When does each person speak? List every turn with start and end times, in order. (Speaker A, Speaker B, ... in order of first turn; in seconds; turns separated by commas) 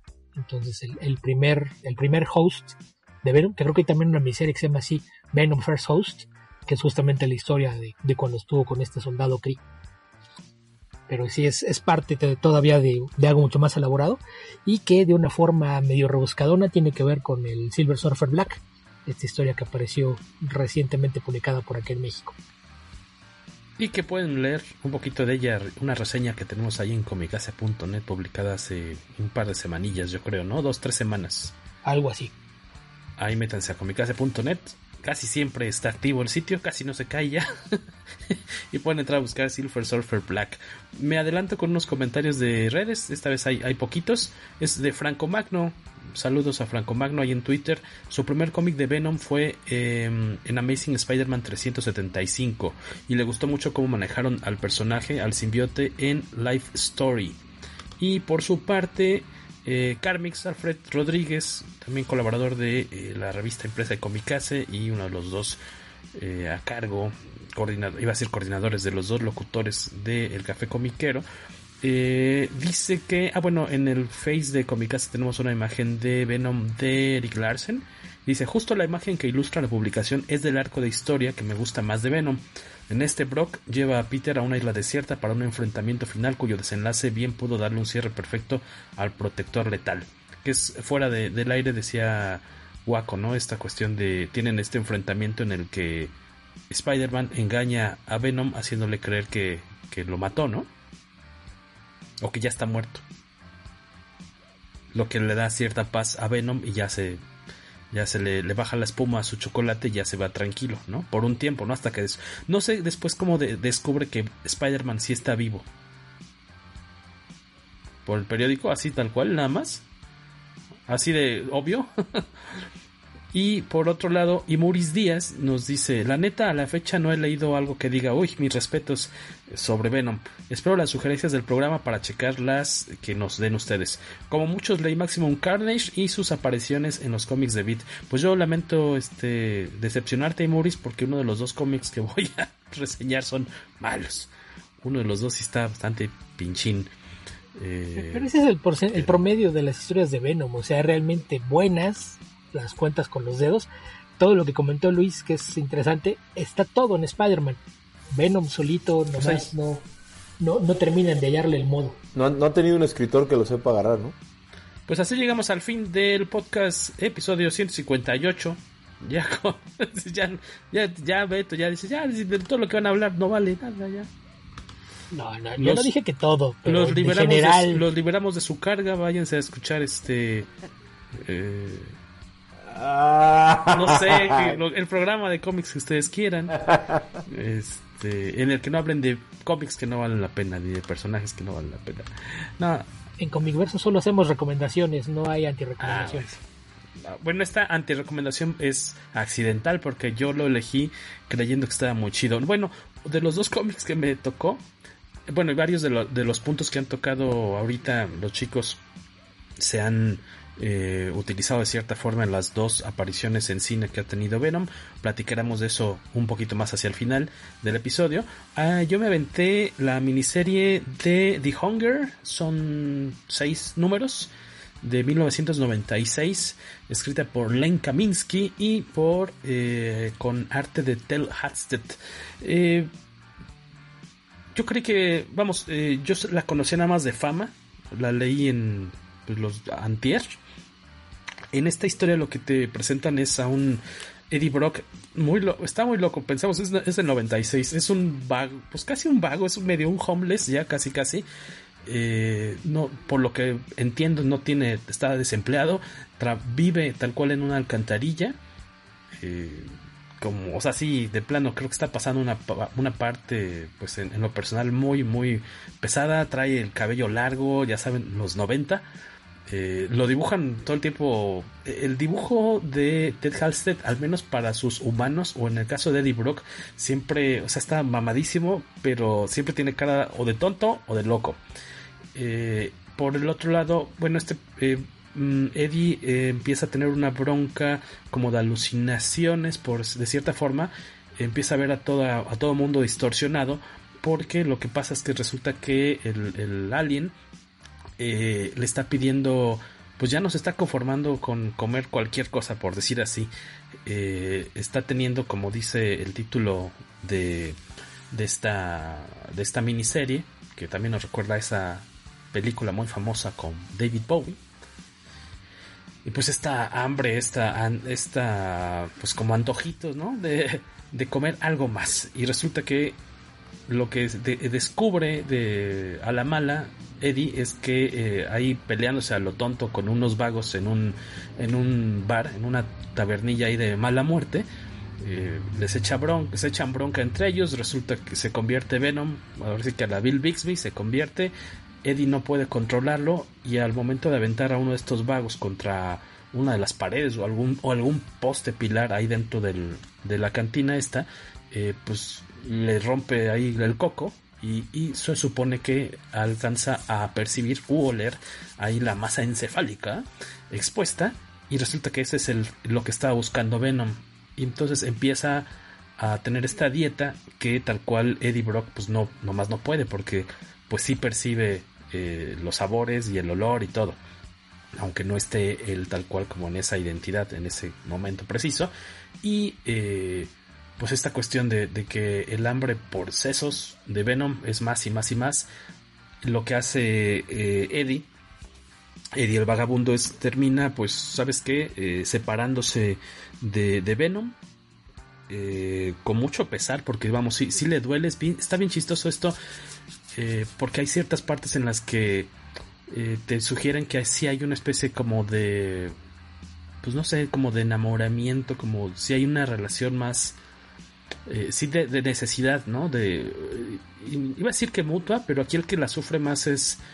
Speaker A: 0.3-9.6, Speaker A: 11.1-22.3, Speaker B: 23.8-31.5, Speaker A: 31.9-32.3, Speaker B: 33.2-57.4, Speaker B: 58.0-65.6, Speaker B: 66.1-71.2, Speaker B: 71.8-96.1, Speaker B: 96.7-100.7, Speaker B: 102.2-103.0, Speaker B: 104.9-107.2, Speaker B: 107.9-115.7, Speaker B: 118.0-119.8, Speaker B: 120.8-122.2, Speaker B: 123.3-144.3, Speaker B: 144.8-146.9, Speaker B: 147.6-148.3, Speaker A: 147.9-157.6, Speaker A: 158.1-159.8, Speaker B: 159.2-159.5, Speaker A: 160.4-162.0, Speaker C: 162.1-164.2, Speaker B: 164.9-174.1, Speaker A: 175.1-177.8, Speaker B: 175.6-175.9, Speaker B: 176.6-180.5, Speaker B: 181.2-181.9, Speaker C: 182.7-184.5, Speaker B: 183.7-192.8, Speaker A: 193.2-196.3, Speaker B: 195.8-196.4, Speaker B: 197.0-204.6, Speaker B: 205.3-208.8, Speaker B: 209.6-224.3, Speaker B: 224.8-232.9, Speaker B: 234.5-240.3, Speaker B: 241.5-251.2, Speaker B: 251.8-258.4, Speaker B: 259.2-268.9, Speaker B: 269.5-281.4, Speaker B: 282.1-297.1, Speaker B: 298.0-303.3, Speaker B: 303.9-307.6, Speaker B: 308.1-314.4, Speaker B: 316.0-323.0, Speaker B: 323.7-334.5, Speaker B: 335.0-374.0, Speaker B: 374.7-385.5, Speaker B: 386.2-388.1, Speaker B: 389.1-394.3, Speaker B: 395.3-399.4, Speaker B: 400.1-402.3, Speaker B: 402.9-405.9, Speaker B: 406.8-410.4, Speaker B: 411.3-416.8